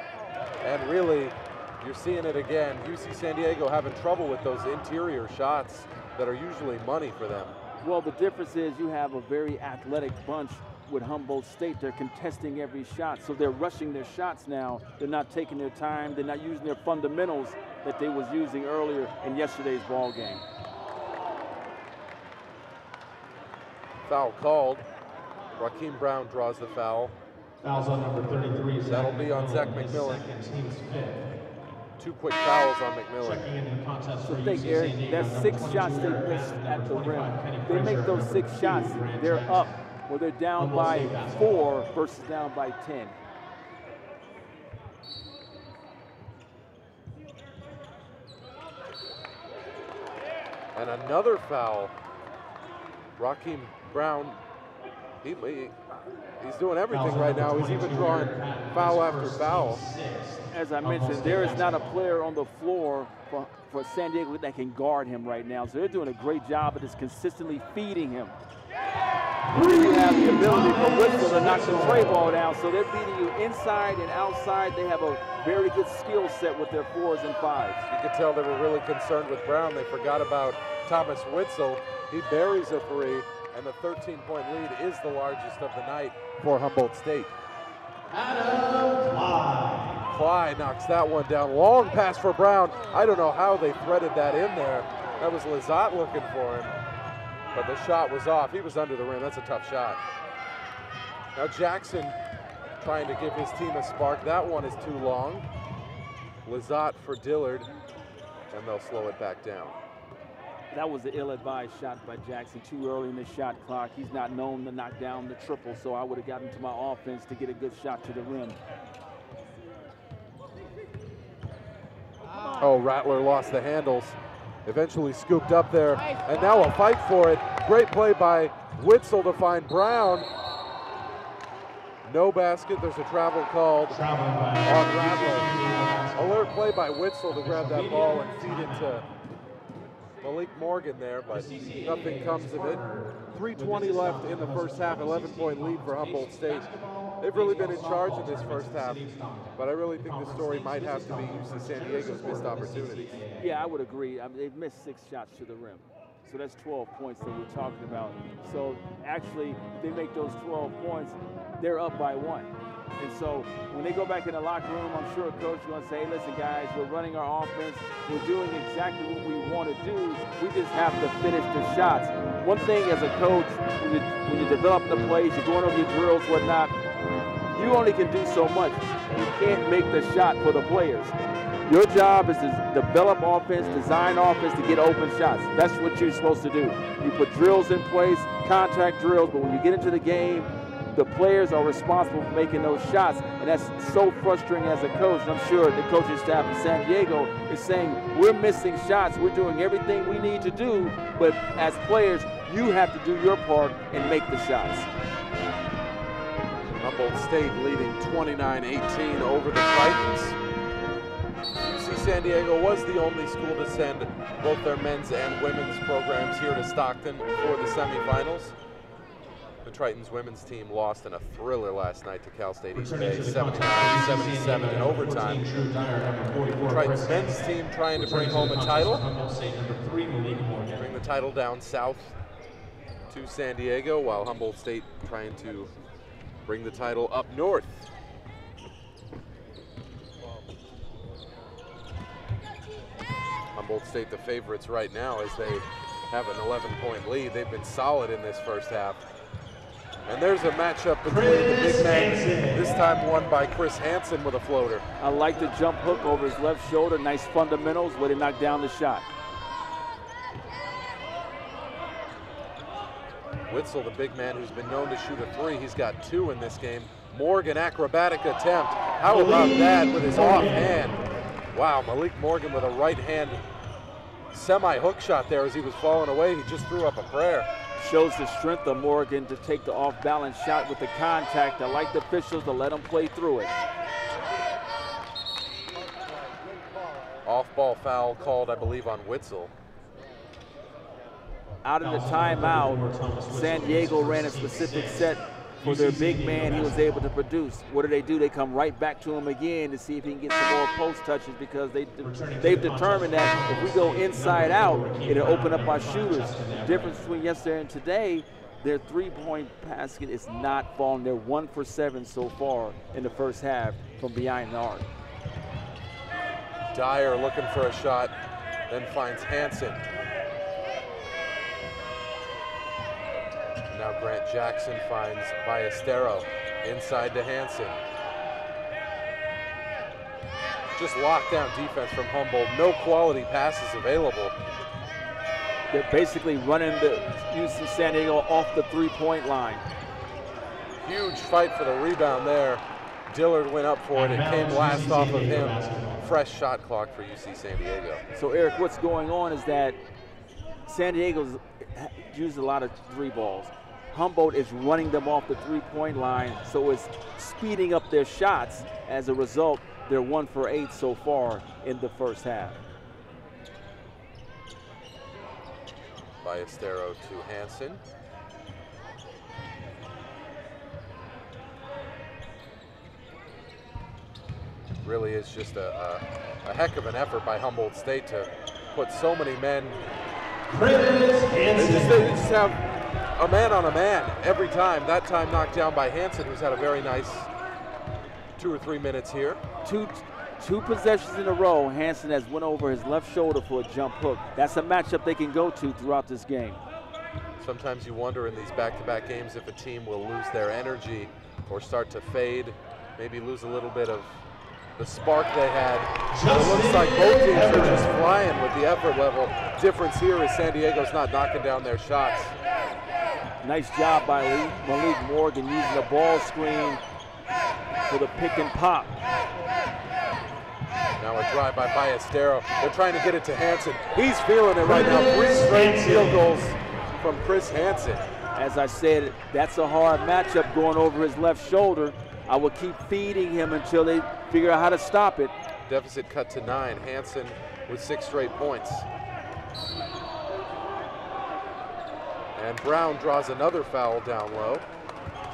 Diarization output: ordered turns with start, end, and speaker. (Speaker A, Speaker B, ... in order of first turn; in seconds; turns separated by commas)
Speaker A: 0.6-7.5, Speaker B: 7.8-20.4, Speaker A: 24.1-24.8, Speaker A: 25.6-27.1, Speaker C: 27.6-31.3, Speaker A: 28.8-30.2, Speaker A: 32.0-33.4, Speaker C: 33.2-39.7, Speaker B: 34.2-43.1, Speaker C: 40.6-41.8, Speaker A: 50.8-51.9, Speaker A: 53.2-54.4, Speaker A: 55.2-55.8, Speaker A: 56.4-59.8, Speaker C: 56.9-62.0, Speaker B: 60.5-68.3, Speaker C: 69.5-72.2, Speaker B: 69.5-77.8, Speaker A: 77.9-87.3, Speaker C: 88.1-90.0, Speaker A: 90.1-96.7, Speaker A: 97.5-100.0, Speaker A: 101.3-102.2, Speaker A: 102.8-105.5, Speaker A: 106.5-107.7, Speaker A: 108.5-109.8, Speaker B: 110.7-118.6, Speaker A: 122.6-130.3, Speaker A: 132.0-134.0, Speaker C: 133.9-136.5, Speaker A: 134.6-135.5, Speaker A: 136.2-139.0, Speaker C: 137.3-138.9, Speaker A: 140.2-149.0, Speaker C: 141.3-153.5, Speaker A: 149.6-153.2, Speaker B: 153.4-176.7, Speaker B: 177.5-181.1, Speaker B: 181.7-204.9, Speaker A: 206.8-210.4, Speaker A: 211.7-218.5, Speaker A: 219.6-225.4, Speaker C: 222.7-230.9, Speaker A: 226.7-229.1, Speaker A: 230.7-232.2, Speaker A: 233.1-235.7, Speaker A: 236.5-237.9, Speaker A: 243.6-249.0, Speaker A: 250.1-254.8, Speaker C: 251.0-252.8, Speaker B: 255.0-259.1, Speaker A: 263.5-271.0, Speaker C: 269.1-270.9, Speaker A: 271.5-273.4, Speaker A: 274.3-277.5, Speaker B: 277.7-283.5, Speaker A: 287.2-289.5, Speaker B: 291.6-314.9, Speaker C: 291.8-296.9, Speaker C: 302.0-307.0, Speaker A: 316.7-318.1, Speaker A: 318.7-319.9, Speaker A: 323.7-327.8, Speaker A: 330.8-334.3, Speaker B: 335.7-339.6, Speaker A: 340.8-348.0, Speaker C: 343.9-346.0, Speaker B: 348.1-349.8, Speaker B: 350.7-362.6, Speaker A: 366.2-367.8, Speaker A: 374.8-379.8, Speaker C: 380.5-382.2, Speaker A: 381.5-382.6, Speaker A: 383.2-387.3, Speaker A: 388.4-389.4, Speaker B: 389.6-396.6, Speaker A: 397.4-404.2, Speaker A: 404.8-412.3, Speaker C: 406.1-407.9, Speaker B: 413.4-416.8, Speaker B: 417.9-418.9, Speaker A: 421.0-428.1, Speaker C: 424.6-426.3, Speaker B: 428.3-435.3, Speaker A: 435.7-438.9, Speaker A: 442.4-444.6